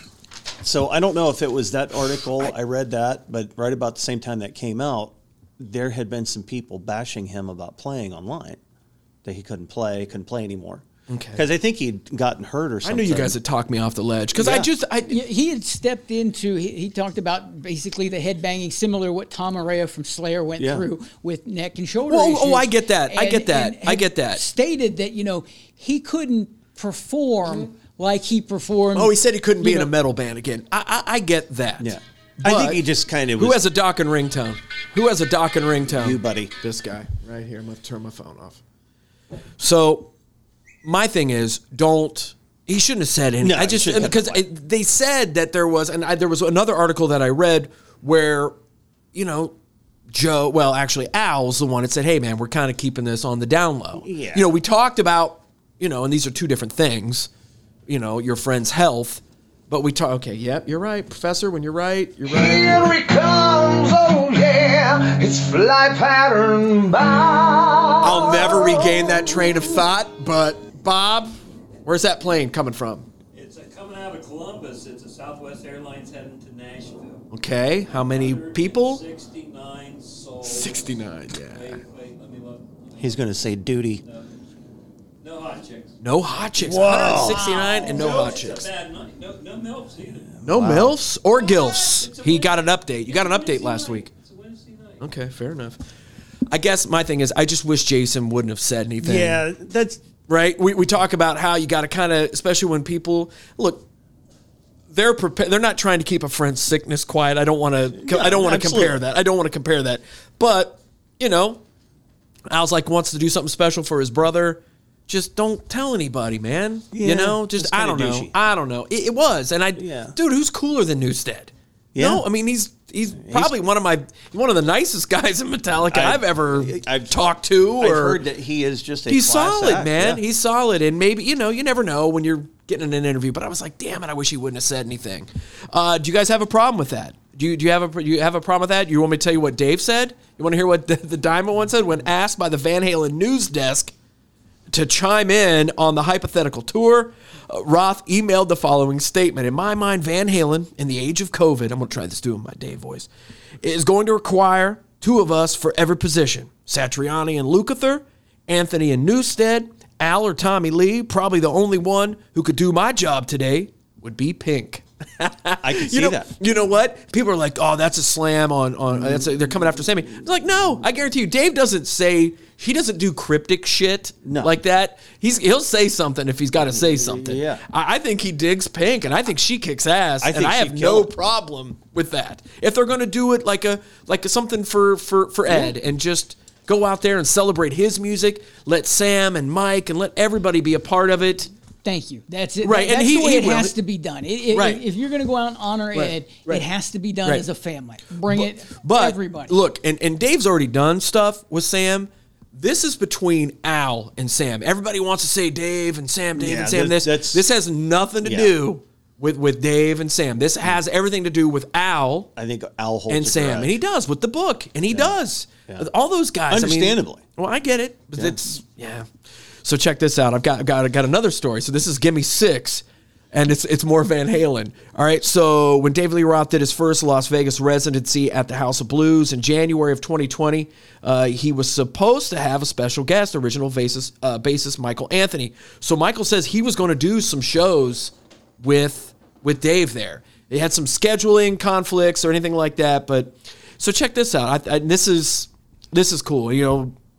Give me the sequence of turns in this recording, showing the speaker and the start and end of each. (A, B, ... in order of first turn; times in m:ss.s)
0:00.6-0:08.6 A
0:09.2-0:13.4 A
0:11.1-0:11.4 B
0:12.8-0:15.2 B
0:14.4-0:14.7 A
0:15.1-0:29.9 C
0:20.6-0:20.8 A
0:22.1-0:24.4 B
0:28.9-0:32.8 B
0:31.8-0:33.6 A
0:33.4-0:38.6 B
0:35.9-0:36.5 A
0:39.6-0:40.1 B
0:40.8-0:48.5 B
0:43.4-0:44.4 A
0:49.1-0:49.5 B
0:50.1-0:57.3 B
0:53.9-0:54.5 A
0:57.9-1:03.0 B
1:02.3-1:08.8 D
1:08.0-1:13.1 B
1:13.3-1:17.2 E
1:17.3-1:19.0 B
1:17.9-1:23.3 E
1:20.4-1:21.8 B
1:23.0-1:24.0 A
1:24.0-1:24.3 E
1:25.2-1:25.9 E
1:26.0-1:28.7 B
1:26.6-1:27.6 A
1:27.3-1:30.4 E
1:30.4-1:31.0 A
1:30.4-1:34.1 B
1:31.3-1:35.1 E
1:35.0-1:35.8 B
1:36.5-1:39.4 B
1:39.0-1:40.0 A
1:40.3-1:43.8 B
1:44.9-1:51.6 B
1:47.9-1:49.0 A
1:52.5-2:08.2 B
1:56.9-1:58.3 A
1:59.8-2:00.2 A
2:01.9-2:02.2 A
2:03.2-2:03.5 A
2:05.9-2:07.2 A
2:07.8-2:10.2 A
2:09.1-2:23.9 B
2:24.7-2:33.1 B
2:33.6-3:11.5 B
2:45.6-2:46.3 A
2:48.9-2:50.2 A
2:54.2-2:54.5 A
2:56.6-2:57.6 A
3:00.2-3:01.1 A
3:05.5-3:05.7 A
3:11.8-3:19.5 C
3:12.6-3:13.7 B
3:14.5-3:14.8 B
3:15.9-3:16.6 B
3:18.3-3:32.3 B
3:26.3-3:27.4 A
3:28.2-3:28.5 A
3:32.4-3:33.8 A
3:33.1-3:39.1 B
3:34.9-3:35.8 A
3:36.5-3:37.2 A
3:38.2-3:38.5 A
3:39.6-4:06.9 B